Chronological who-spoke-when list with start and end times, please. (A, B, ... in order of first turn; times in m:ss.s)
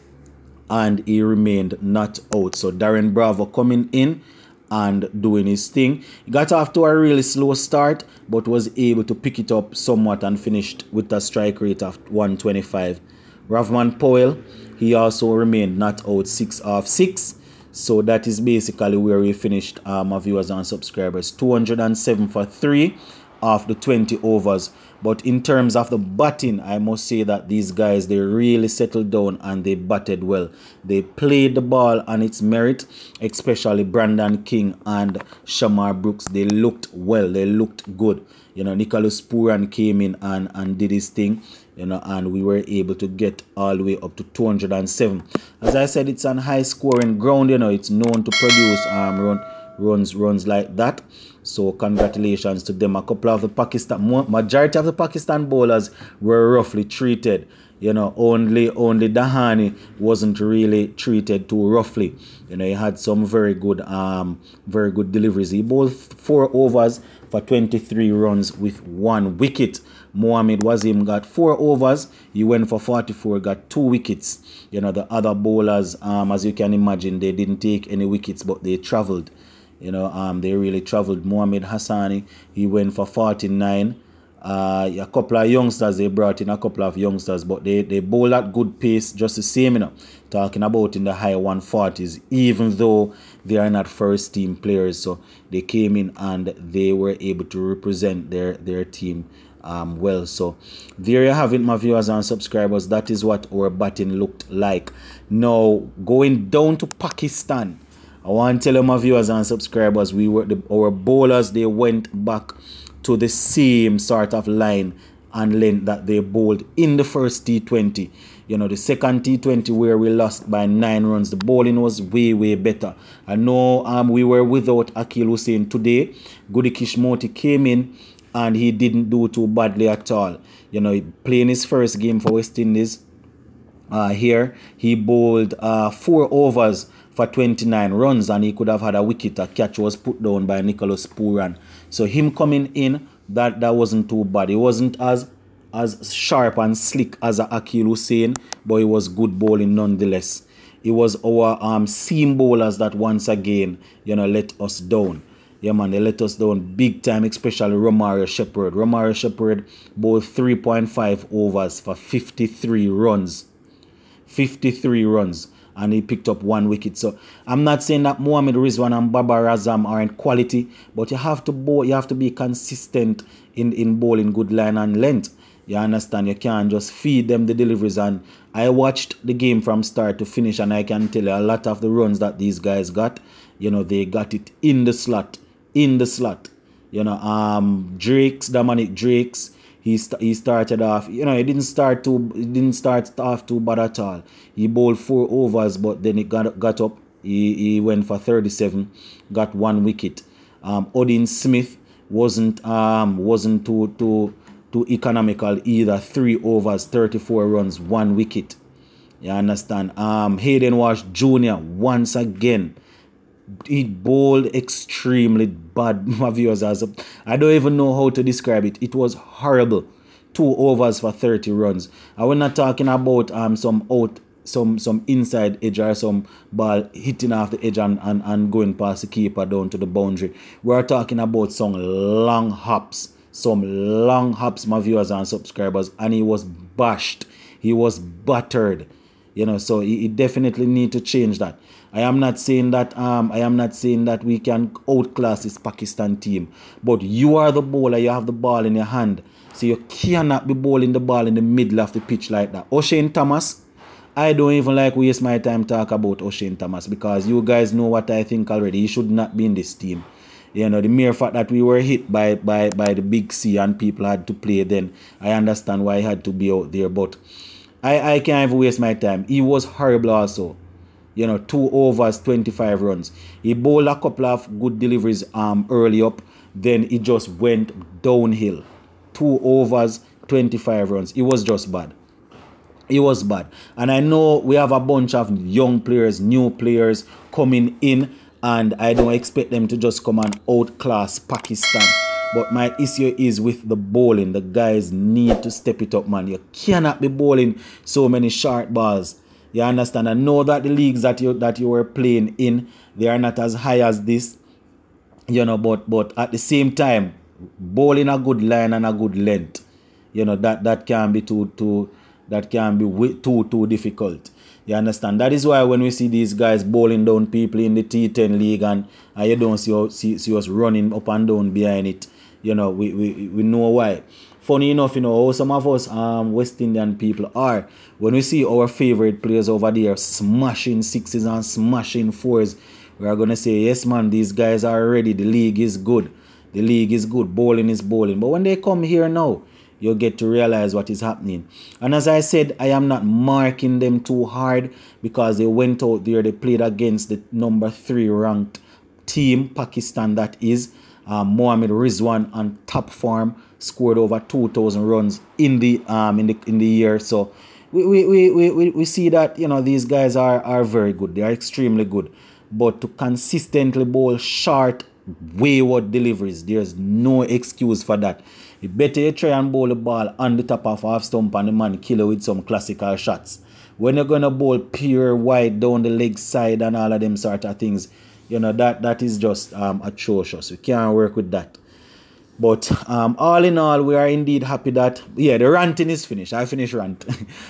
0:00.7-2:13.0 A
2:13.9-2:43.5 A
2:44.3-3:28.6 A
3:29.2-3:32.8 A
3:33.7-4:13.6 A
4:14.2-4:27.2 A
4:27.8-4:30.6 A
4:31.2-4:42.0 A
4:42.9-5:04.4 A
5:05.3-5:09.6 A
5:10.1-6:21.6 A
6:22.4-6:27.0 A